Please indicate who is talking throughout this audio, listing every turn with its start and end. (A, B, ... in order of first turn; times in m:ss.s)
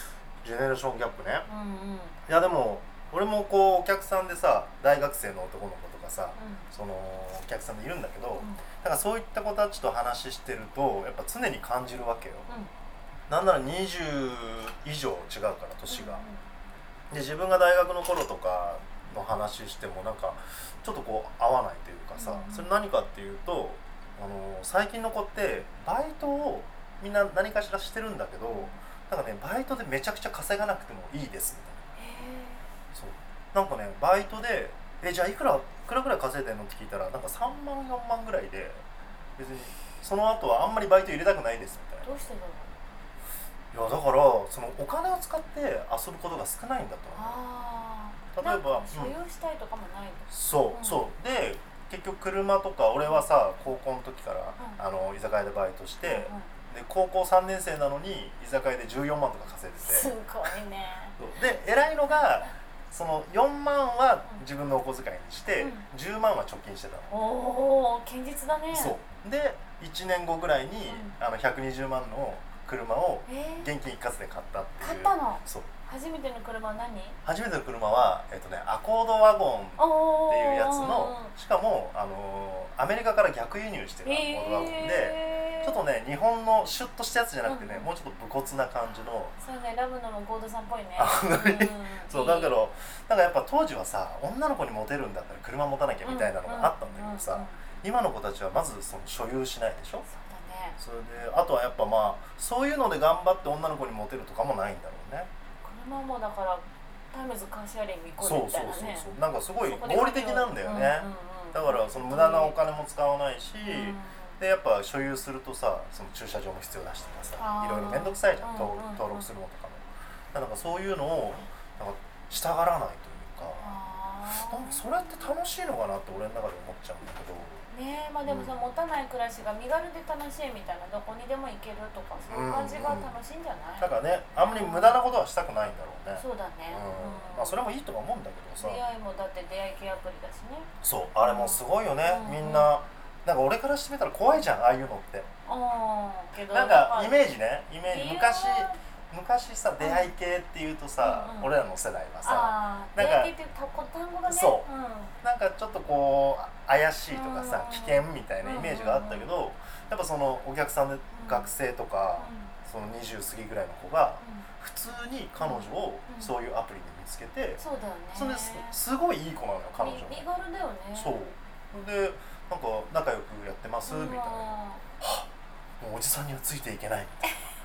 0:00.4-0:01.5 A
0:01.5-0:02.2 B
0:02.3-0:12.5 A
0:06.4-0:06.7 B
0:08.4-0:08.6 B
0:13.3-0:16.2 A
0:15.9-0:16.4 B
0:17.1-0:31.8 A
0:22.2-0:22.7 B
0:28.5-0:28.8 B
0:32.0-0:32.6 B
0:32.9-0:38.8 A
0:39.4-0:42.2 A
0:42.0-0:42.7 B
0:43.7-0:47.4 A
0:47.2-0:51.0 B
0:48.3-0:49.2 A
0:50.3-1:00.1 A
0:56.0-0:56.5 B
0:59.8-1:01.2 B
1:01.2-1:07.1 A
1:05.6-1:05.9 B
1:07.1-1:09.0 B
1:08.7-1:15.7 A
1:10.9-1:11.2 B
1:13.3-1:13.7 B
1:14.8-1:17.2 B
1:17.2-1:29.4 A
1:19.8-1:21.3 B
1:24.0-1:25.8 B
1:27.4-1:27.9 B
1:29.4-1:32.6 B
1:31.0-1:40.1 A
1:36.0-1:37.6 B
1:40.1-1:40.8 B
1:40.8-1:45.3 A
1:45.6-1:52.6 B
1:48.2-2:03.7 A
1:53.6-1:54.4 B
1:57.4-1:59.3 B
2:03.6-2:04.8 B
2:04.4-2:07.6 A
2:07.7-2:15.0 B
2:08.2-2:08.5 A
2:12.3-2:13.1 A
2:13.8-2:18.8 A
2:16.2-2:17.6 B
2:18.6-2:22.7 B
2:20.8-2:25.3 A
2:25.5-2:27.2 B
2:26.5-2:33.3 A
2:27.8-2:28.8 B
2:29.8-2:30.1 B
2:31.0-2:31.5 B
2:32.2-2:35.1 B
2:34.3-2:34.7 A
2:35.2-2:47.6 A
2:37.1-2:39.3 B
2:41.1-2:41.5 B
2:42.2-2:42.5 B
2:44.2-2:44.5 B
2:45.4-2:46.3 B
2:47.6-2:48.8 B
2:48.1-2:50.2 A
2:49.8-2:51.2 B
2:51.0-2:55.3 A
2:53.9-2:54.8 B
2:55.8-2:57.3 A